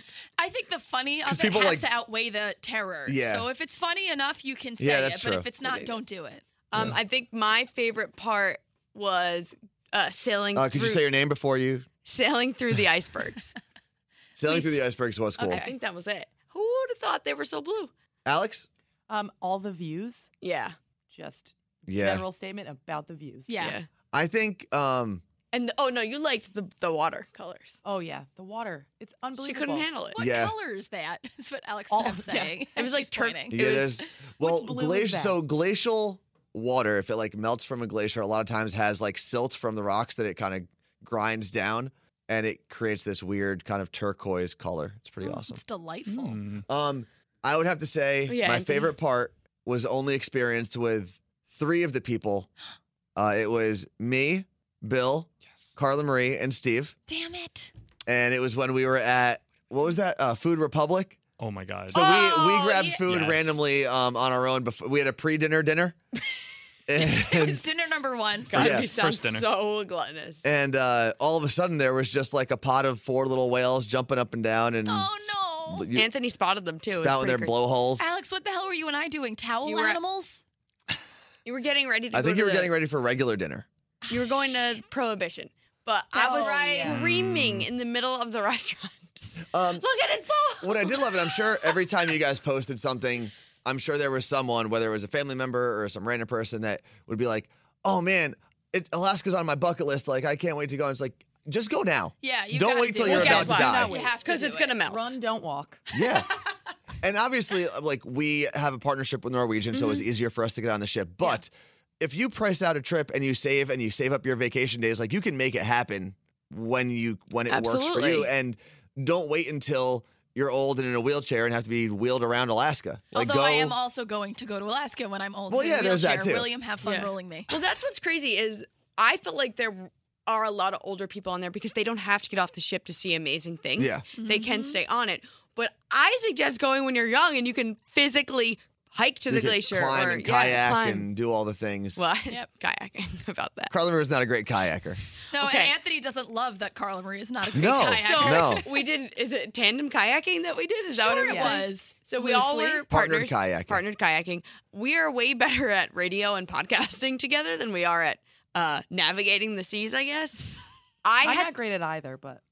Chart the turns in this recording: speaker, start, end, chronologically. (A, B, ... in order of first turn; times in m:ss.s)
0:00.4-0:06.4 A
0:01.3-0:01.9 B
0:03.1-0:03.5 B
0:04.8-0:05.5 B
0:05.6-0:06.0 C
0:06.7-0:11.0 C
0:10.6-0:11.9 B
0:12.0-0:13.5 C
0:14.4-0:15.6 B
0:14.5-0:14.8 A
0:15.4-0:15.8 A
0:15.4-0:17.9 C
0:18.3-0:18.7 B
0:19.1-0:20.3 D
0:20.4-0:20.8 C
0:21.1-0:23.7 D
0:21.9-0:22.2 B
0:23.5-0:23.8 A
0:23.6-0:23.9 C
0:24.1-0:25.2 B
0:25.5-0:27.8 C
0:27.8-0:29.9 D
0:29.4-0:30.2 C
0:30.1-0:33.6 A
0:30.2-0:30.6 B
0:31.9-0:32.4 D
0:32.3-0:34.0 C
0:33.5-0:45.6 B
0:34.4-0:35.4 D
0:45.2-0:46.4 A
0:46.1-0:46.6 E
0:46.7-0:52.5 B
0:48.3-0:48.9 C
0:53.2-0:57.0 B
0:57.1-0:57.7 A
0:58.1-1:01.2 B
1:01.4-1:02.1 E
1:01.9-1:06.0 B
1:01.9-1:02.9 A
1:02.1-1:02.4 C
1:03.1-1:03.6 E
1:06.9-1:07.7 B
1:07.0-1:08.8 A
1:08.5-1:10.5 C
1:08.5-1:09.5 E
1:08.6-1:08.9 B
1:10.4-1:16.1 B
1:14.9-1:15.9 A
1:15.9-1:17.6 C
1:16.9-1:18.1 B
1:18.0-1:20.4 A
1:19.6-1:20.0 C
1:21.4-1:22.7 C
1:22.1-1:23.7 B
1:24.1-1:29.2 C
1:26.2-1:26.8 A
1:26.2-1:27.0 D
1:26.9-1:27.7 E
1:29.5-1:29.8 B
1:29.8-1:31.4 C
1:30.6-1:43.9 B
1:42.2-1:44.8 A
1:43.0-1:45.1 C
1:43.1-1:44.3 D
1:44.8-1:46.1 D
1:45.9-1:46.3 B
1:47.0-2:03.8 B
1:57.5-1:58.3 C
2:03.1-2:07.6 A
2:05.5-2:06.5 B
2:06.8-2:21.1 C
2:13.8-2:14.0 B
2:14.2-2:14.8 A
2:19.3-2:22.0 B
2:22.0-2:23.7 C
2:23.7-2:25.0 B
2:25.3-2:28.8 A
2:25.4-2:25.7 C
2:27.5-2:28.6 B
2:28.0-2:40.4 C
2:30.9-2:32.9 A
2:31.3-2:31.6 D
2:32.9-2:33.8 B
2:41.0-2:41.6 C
2:41.2-2:42.4 D